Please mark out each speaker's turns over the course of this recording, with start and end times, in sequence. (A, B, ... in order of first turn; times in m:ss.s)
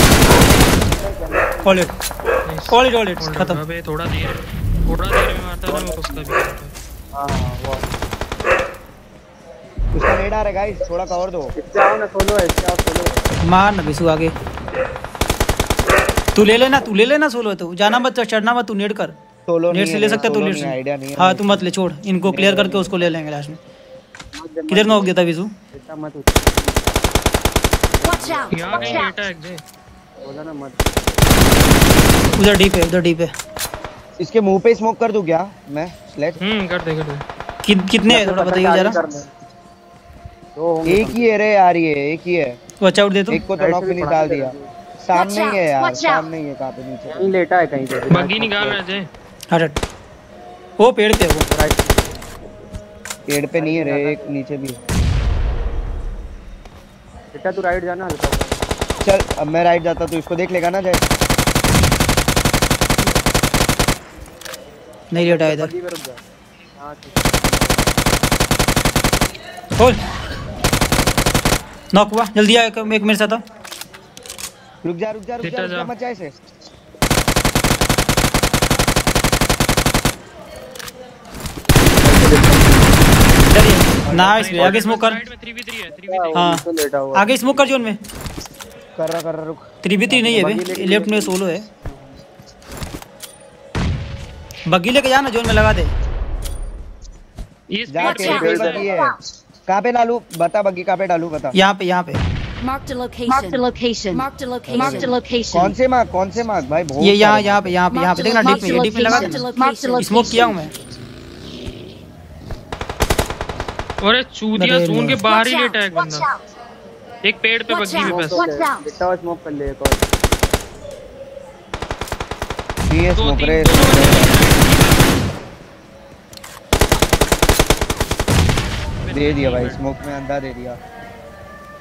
0:00.5-0:01.8 A
0:01.6-0:02.0 B
0:02.5-0:06.7 C
0:02.7-0:03.6 B
0:05.7-0:06.3 A
0:07.1-0:07.9 A
0:09.9-0:11.5 D
0:11.6-0:13.3 A
0:13.4-0:14.4 B
0:16.4-0:19.2 B
0:19.5-0:21.6 D
0:19.7-0:23.6 B
0:22.3-0:23.0 D
0:24.3-0:25.1 A
0:24.7-0:25.5 B
0:25.7-0:26.9 A
0:28.0-0:29.1 A
0:28.5-0:29.6 C
0:28.7-0:29.1 D
0:30.2-0:31.2 A
0:32.4-0:33.3 B
0:34.2-0:36.4 D
0:36.4-0:37.2 C
0:37.6-0:39.0 B
0:38.0-0:39.3 A
0:40.6-0:41.3 A
0:40.8-0:42.6 D
0:42.8-0:43.4 B
0:43.3-0:47.3 D
0:43.6-0:44.7 A
0:47.1-0:48.8 A
0:48.1-0:49.1 C
0:49.5-0:49.8 B
0:50.8-0:51.5 B
0:51.5-0:52.2 A
0:53.3-0:54.8 D
0:53.6-0:54.4 A
0:57.3-0:58.6 A
0:59.0-1:01.0 D
1:05.1-1:05.7 B
1:05.1-1:06.2 A
1:06.8-1:07.9 A
1:09.8-1:10.0 B
1:11.9-1:13.4 B
1:14.8-1:16.3 D
1:15.4-1:15.9 C
1:21.9-1:22.9 A
1:23.5-1:25.2 B
1:24.1-1:24.5 A
1:24.1-1:24.8 D
1:24.3-1:26.4 C
1:26.0-1:27.9 A
1:26.4-1:26.6 B
1:27.1-1:28.0 B
1:29.0-1:29.7 D
1:29.8-1:31.7 B
1:30.1-1:32.1 A
1:34.7-1:35.9 B
1:37.7-1:38.9 C
1:37.9-1:39.2 D
1:38.3-1:39.0 A
1:39.7-1:41.6 D
1:41.6-1:42.2 B
1:42.7-1:45.5 E
1:44.7-1:47.8 D
1:47.0-1:50.8 B
1:48.9-1:50.0 E
1:54.0-1:56.3 C
1:54.6-1:55.2 B
1:57.2-1:58.4 C
1:58.0-2:00.0 A
2:02.9-2:04.3 D
2:03.1-2:05.2 C
2:09.0-2:09.8 C
2:09.1-2:10.8 D